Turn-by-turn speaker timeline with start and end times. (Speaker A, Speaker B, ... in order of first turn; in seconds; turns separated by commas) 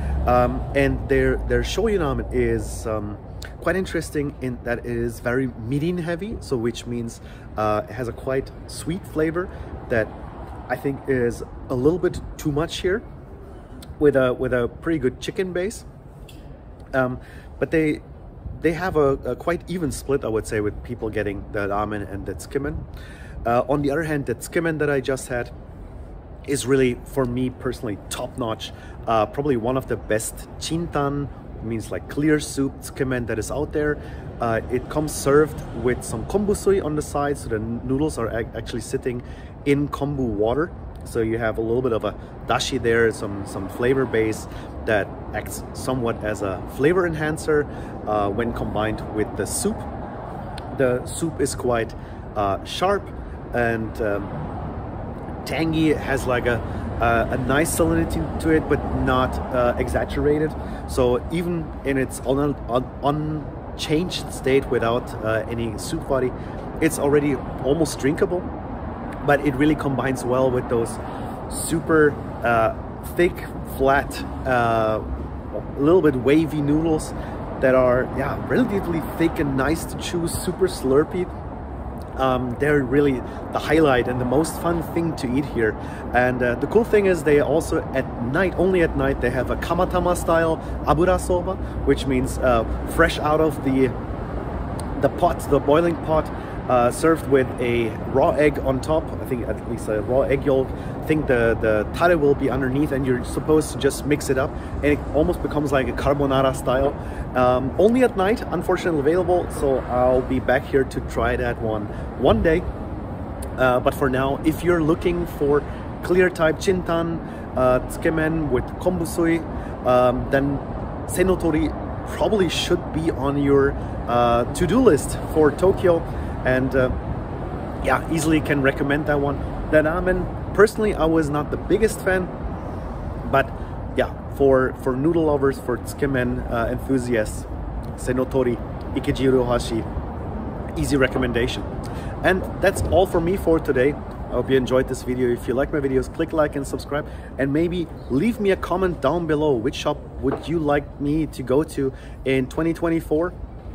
Speaker A: 0.2-10.1, Speaker A: 10.7-13.1, Speaker A: 14.0-15.8, Speaker A: 16.9-22.9, Speaker A: 23.4-25.5, Speaker A: 26.5-49.9, Speaker A: 50.7-54.3, Speaker A: 55.4-68.5, Speaker A: 69.2-81.3, Speaker A: 82.2-93.9, Speaker A: 95.0-112.7, Speaker A: 113.6-127.0, Speaker A: 127.8-132.3, Speaker A: 133.2-139.9, Speaker A: 140.7-141.7, Speaker A: 142.2-153.3